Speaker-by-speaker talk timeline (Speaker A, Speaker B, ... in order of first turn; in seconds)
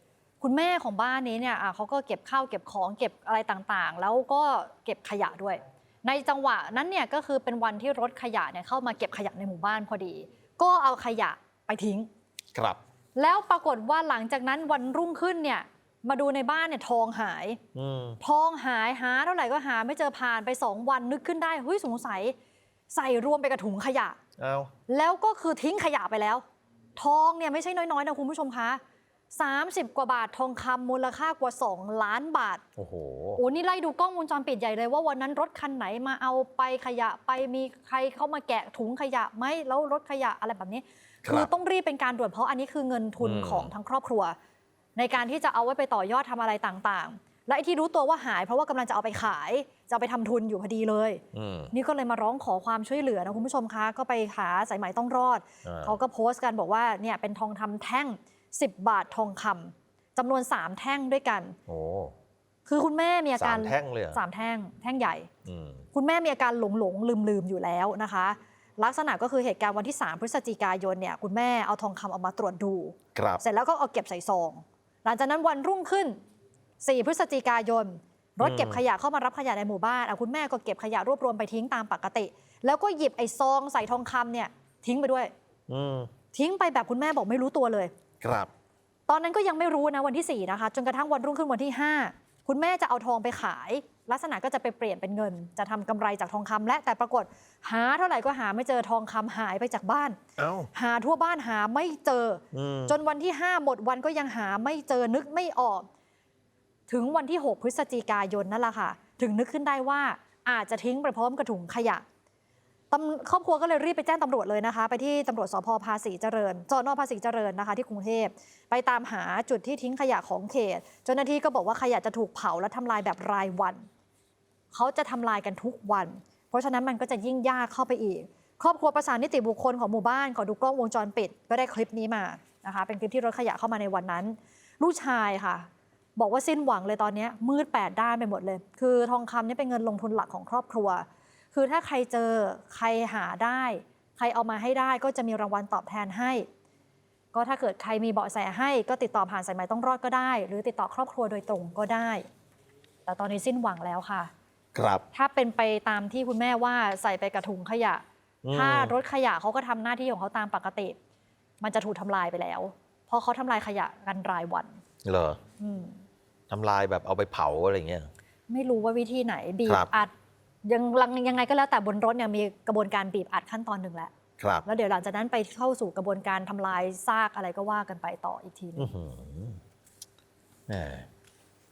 Speaker A: 0.4-12.1, 13.2-17.6, 18.2-22.3, 22.9-24.2, 24.9-26.4, 27.0-28.8, 29.3-32.6, 33.4-44.4, 45.0-61.6, 62.6-65.3, 65.9-76.2, 76.8-85.3, 86.3-87.9, 89.1-100.2, 100.7-105.8, 106.9-112.0, 112.9-123.8, 124.7-146.5, 147.3-152.2, 153.1-154.3, 155.1-160.9, 161.6-164.8, 165.6-166.0, 168.5-170.1, 170.6-174.1, 174.6-178.9
Speaker B: 12.5-12.8, 17.7-18.2, 24.4-24.7, 32.8-33.4, 41.2-41.5, 43.2-43.7, 51.3-51.7, 55.6-56.0, 61.7-62.1, 63.4-64.2, 65.4-65.8, 73.1-73.4, 78.4-78.8, 85.7-86.1, 88.2-88.5, 100.4-100.7, 102.5-103.0, 154.7-155.0, 158.4-158.9, 165.0-165.4, 166.5-168.1, 169.6-169.9, 174.4-174.6, 178.8-179.6, 180.7-181.1